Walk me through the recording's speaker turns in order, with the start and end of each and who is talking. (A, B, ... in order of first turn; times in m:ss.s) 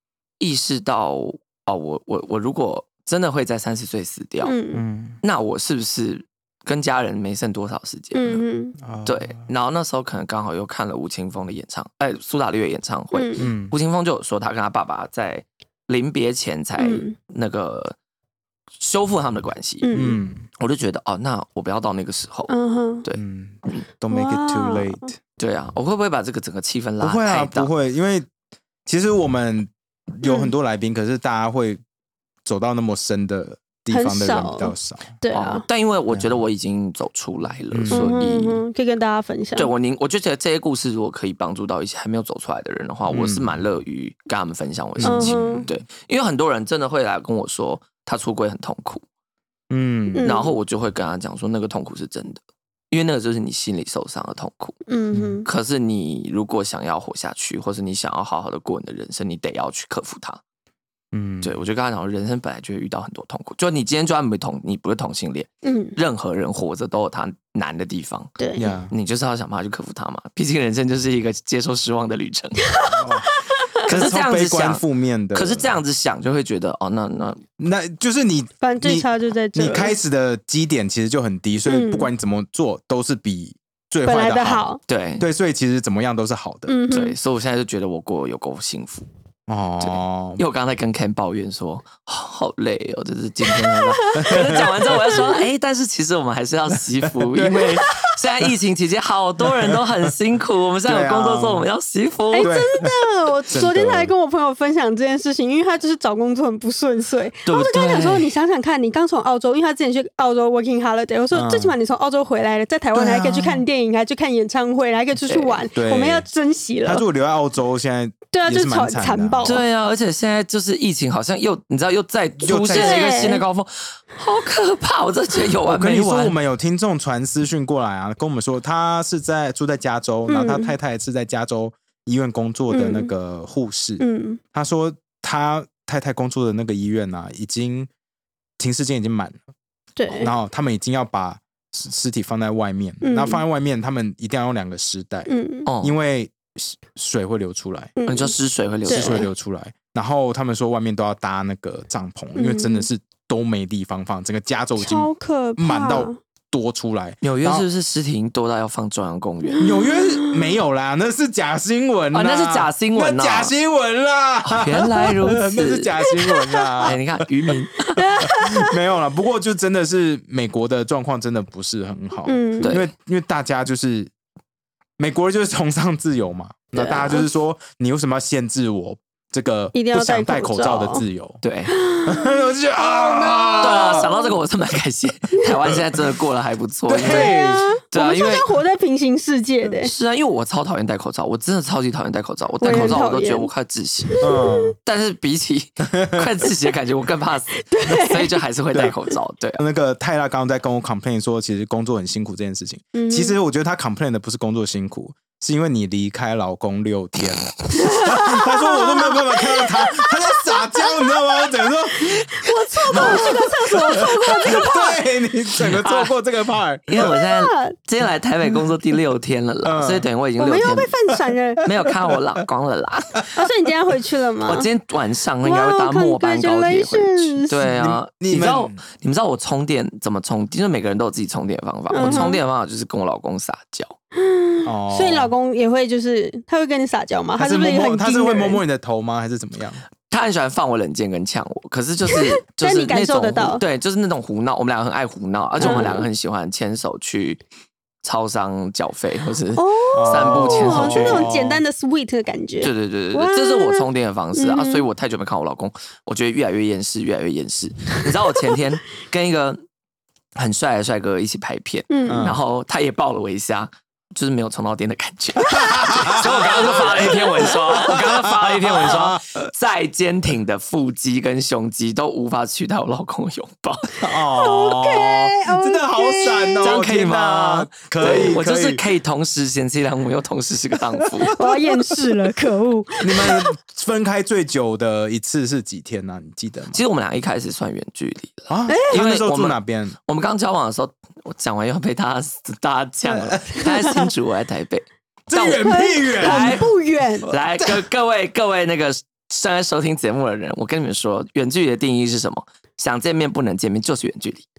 0:00.4-0:04.5 A
0:04.4-0:04.8 B
0:04.7-0:05.2 C
0:05.2-0:08.4 A
0:08.1-0:08.8 B
0:08.8-0:09.4 C
0:09.0-0:18.0 A
0:13.1-0:13.5 B
0:13.4-0:13.7 C
0:16.8-0:17.1 B
0:18.8-0:19.9 A
0:19.8-0:20.2 B
0:19.9-0:20.4 C
0:20.6-0:22.5 A
0:22.5-0:23.0 B
0:23.0-0:23.8 A
0:23.2-0:25.1 C
0:24.1-0:25.1 B
0:25.4-0:27.7 A
0:27.0-0:28.3 C
0:28.8-0:31.8 C
0:30.2-0:30.5 B
0:32.4-0:35.1 C
0:33.9-0:35.6 B
0:35.3-0:38.6 A
0:37.7-0:38.2 C
0:37.9-0:39.7 B
0:39.6-0:49.0 A
0:43.1-0:43.6 C
0:45.0-0:45.7 C
0:45.0-0:45.6 B
0:49.7-0:50.3 C
0:50.1-0:50.5 B
0:50.2-0:54.8 A
0:54.9-0:55.5 B
0:55.1-0:55.4 C
0:55.4-1:00.4 A
1:01.1-1:01.5 C
1:01.4-1:08.3 A
1:05.6-1:06.0 B
1:08.4-1:08.7 B
1:08.6-1:08.9 C
1:08.9-1:12.6 A
1:12.7-1:13.6 B
1:12.9-1:13.3 C
1:13.8-1:14.8 A
1:13.8-1:15.7 C
1:15.3-1:17.4 A
1:17.6-1:24.6 C
1:18.6-1:19.9 B
1:21.7-1:22.1 B
1:24.0-1:24.8 B
1:24.9-1:25.2 A
1:25.2-1:26.8 C
1:26.7-1:27.2 B
1:26.9-1:29.0 A
1:29.5-1:30.4 C
1:29.8-1:42.6 A
1:33.6-1:34.5 B
1:34.2-1:34.9 C
1:35.1-1:35.4 B
1:37.0-1:37.9 C
1:39.4-1:39.8 C
1:40.8-1:41.6 C
1:42.3-1:57.0 B
1:42.4-1:43.0 C
1:43.5-1:44.1 C
1:47.4-1:48.3 A
1:51.3-1:51.7 C
1:52.9-1:53.6 C
1:55.2-1:55.6 A
1:55.7-1:56.2 C
1:56.8-1:59.6 C
1:58.3-1:59.6 B
1:59.4-2:06.3 A
2:02.4-2:03.1 C
2:02.7-2:03.4 B
2:05.6-2:14.0 C
2:10.3-2:10.7 B
2:12.7-2:13.1 B
2:14.0-2:14.4 B
2:14.5-2:17.9 C
2:18.6-2:19.4 C
2:20.0-2:20.3 B
2:20.1-2:25.3 C
2:23.0-2:23.4 B
2:25.3-2:25.7 B
2:25.6-2:25.9 A
2:25.8-2:27.9 C
2:28.0-2:28.3 B
2:28.1-2:29.3 A
2:28.8-2:29.3 B
2:28.9-2:37.6 C
2:32.4-2:32.9 B
2:34.8-2:36.2 B
2:37.2-2:39.7 A
2:39.5-2:40.6 B
2:39.6-2:47.0 C
2:42.1-2:43.5 A
2:44.4-2:45.9 A
2:46.1-2:46.9 B
2:46.8-2:48.1 A
2:48.0-2:48.8 B
2:48.2-2:54.1 C
2:52.2-2:52.8 B
2:52.6-2:52.9 A
2:55.0-3:01.4 C
2:56.7-2:57.2 B
2:59.7-3:01.0 B
3:01.4-3:01.7 A
3:01.7-3:04.3 B
3:02.0-3:04.1 C
3:03.6-3:08.5 A
3:06.9-3:07.7 C
3:07.0-3:09.9 B
3:09.7-3:14.2 A
3:12.6-3:13.5 B
3:12.6-3:13.0 C
3:14.1-3:14.7 B
3:14.2-3:14.8 C
3:14.8-3:19.6 A
3:15.8-3:16.3 C
3:17.7-3:18.4 B
3:19.6-3:37.1 C
3:22.9-3:23.4 B
3:27.7-3:31.2 B
3:32.0-3:35.0 B
3:32.9-3:33.4 A
3:35.6-3:36.1 A
3:36.9-3:40.9 A
3:37.0-3:37.7 B
3:39.6-3:40.1 C
3:40.4-3:41.6 B
3:41.6-3:43.3 A
3:43.4-3:44.7 B
3:44.4-3:54.0 A
3:45.4-3:47.7 B
3:47.6-3:48.8 C
3:51.9-3:52.4 B
3:52.0-3:52.3 C
3:54.2-3:58.6 B
3:54.6-3:55.3 C
3:57.4-3:59.8 C
4:00.1-4:07.4 A
4:02.1-4:03.6 B
4:05.6-4:06.0 B
4:05.6-4:05.9 C
4:08.0-4:11.3 A
4:09.6-4:14.8 B
4:09.9-4:11.6 C
4:12.6-4:19.6 A
4:20.4-4:34.0 A
4:21.9-4:22.3 B
4:22.1-4:22.4 C
4:25.5-4:29.4 C
4:34.0-4:38.8 C
4:34.2-4:36.8 B
4:36.6-4:41.4 A
4:41.3-4:43.4 B
4:43.0-4:46.8 C
4:46.7-4:56.7 A
4:48.5-4:50.0 C
4:48.7-4:49.0 B
4:53.1-4:53.4 C
4:53.6-4:54.1 B
4:55.3-4:56.6 C
4:55.6-4:57.3 B
4:57.2-5:04.4 A